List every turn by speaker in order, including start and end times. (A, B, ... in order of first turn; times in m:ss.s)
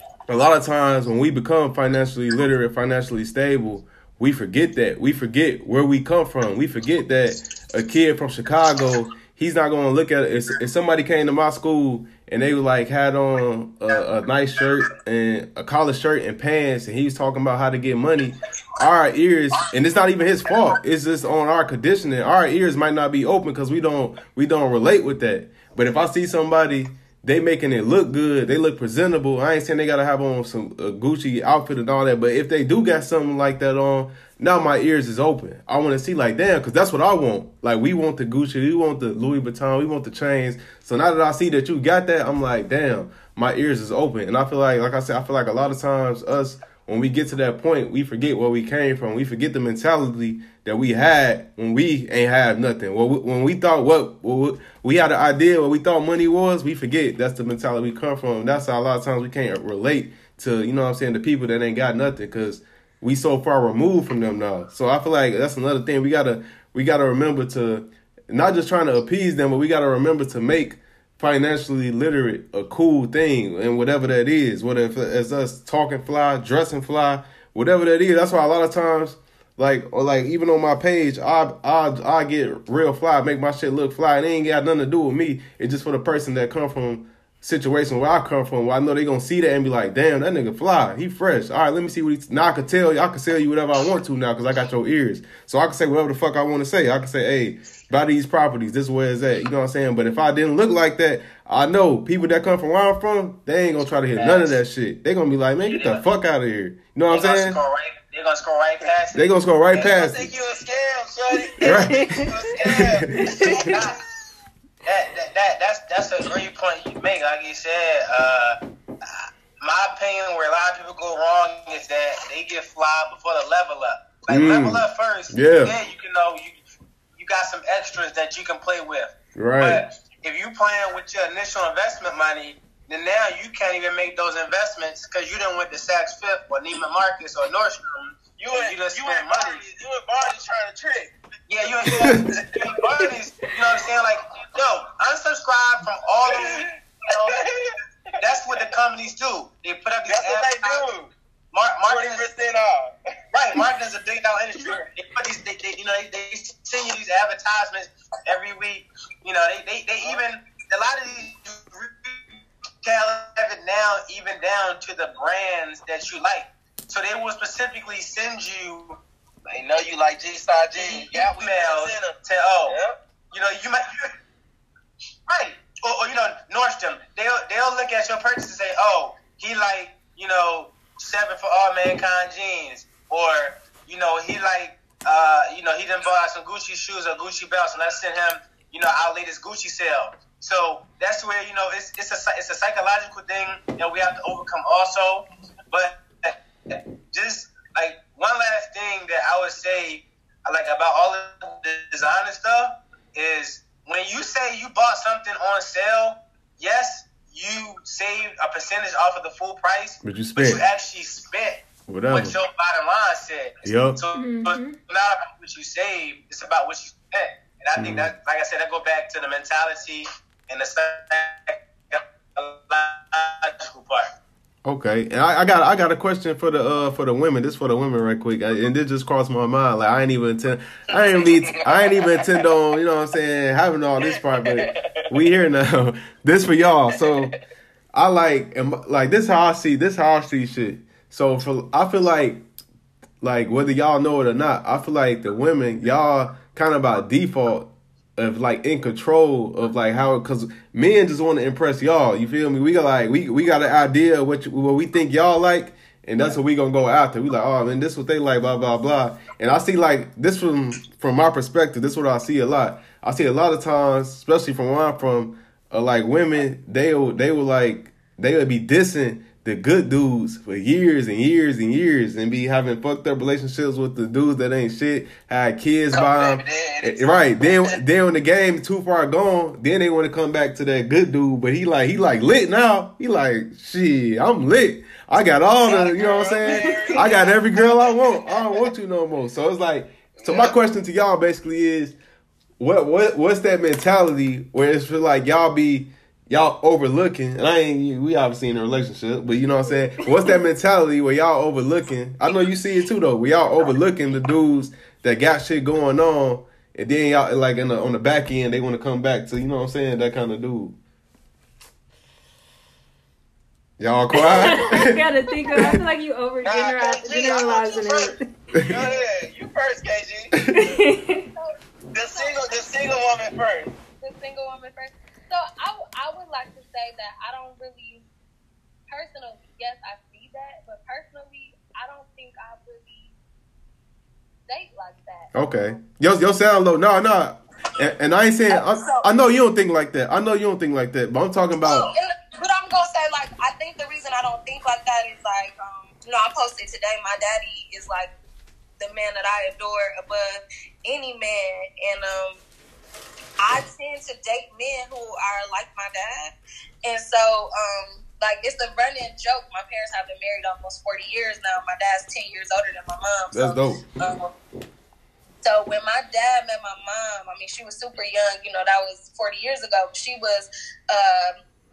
0:00.3-1:47.6 A
1:45.7-1:46.0 B
1:47.1-1:49.3 B
1:49.2-1:50.3 A
1:49.7-1:54.0 C
1:51.6-1:53.7 A
1:51.7-1:52.4 D
1:53.3-1:53.7 D
1:53.7-1:54.0 B
1:54.9-2:06.5 B
2:04.3-2:05.8 A
2:07.2-2:19.6 B
2:09.4-2:09.8 A
2:18.4-2:21.1 C
2:21.5-2:27.4 B
2:21.8-2:22.2 C
2:26.3-2:26.7 C
2:27.3-2:27.7 C
2:28.2-2:30.8 B
2:30.1-2:31.1 C
2:31.5-2:32.3 B
2:31.9-2:32.9 C
2:33.3-2:49.0 B
2:49.5-2:52.1 C
2:50.8-2:52.8 B
2:52.7-2:53.0 C
2:53.3-2:54.1 B
2:55.3-3:44.1 B
3:30.0-3:30.6 A
3:31.9-3:32.4 A
3:33.6-3:34.0 A
3:34.2-3:34.8 D
3:37.8-3:38.1 A
3:44.6-3:57.4 A
3:51.0-3:52.3 C
3:54.4-3:54.7 C
3:57.9-4:02.4 A
4:03.2-4:52.0 A
4:36.0-4:37.8 C
4:45.6-4:48.6 C
4:50.2-4:50.6 C
4:52.6-5:10.8 A
5:13.8-5:15.0 A
5:14.3-5:18.3 D
5:16.4-5:18.1 C
5:18.6-5:20.4 C
5:20.5-5:21.3 D
5:21.3-5:22.7 E
5:21.9-5:23.7 C
5:24.0-5:28.0 E
5:28.9-5:33.1 E
5:34.5-5:35.5 E
5:35.3-5:41.9 A
5:38.5-5:39.1 E
5:41.6-5:48.1 E
5:48.8-5:52.4 E
5:53.4-6:04.3 E
6:03.3-6:03.9 A
6:05.4-6:11.4 E